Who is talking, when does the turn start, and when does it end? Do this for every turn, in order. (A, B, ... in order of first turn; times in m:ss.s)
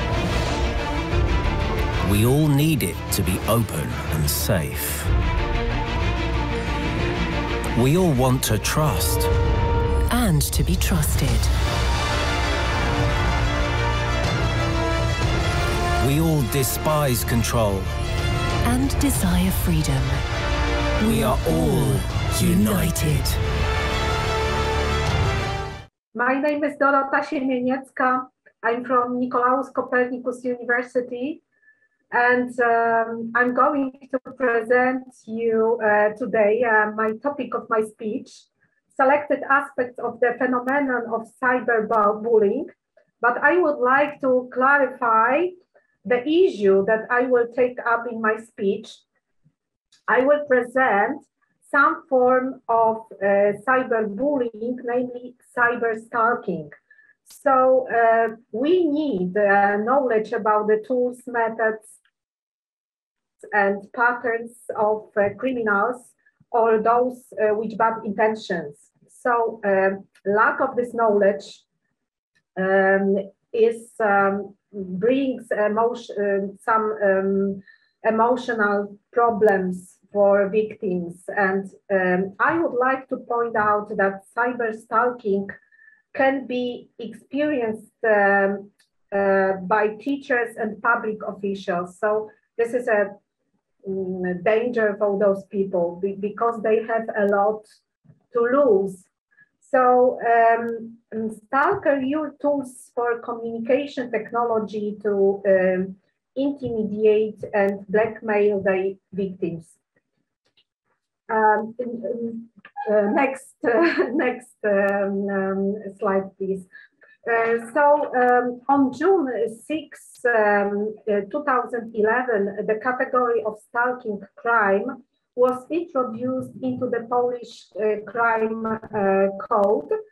0:02.0-0:05.1 A
0:07.7-0:09.3 A
0:10.1-0:11.5 B
0:16.0-0:17.9 A
0:18.6-0:20.2 B
0:21.0-0:23.3 B
0:21.0-0:23.4 A
0:26.1-0:31.4 C
0:32.1-0:45.5 C
0:46.0-0:49.0 C
0:50.1-0:56.7 C
0:57.2-1:01.9 C
1:03.5-1:11.6 C
1:12.6-1:25.5 C
1:26.1-1:33.2 C
1:33.8-1:37.7 C
1:38.3-1:39.0 C
1:39.6-1:49.8 C
1:51.3-1:56.7 C
1:57.2-2:09.9 C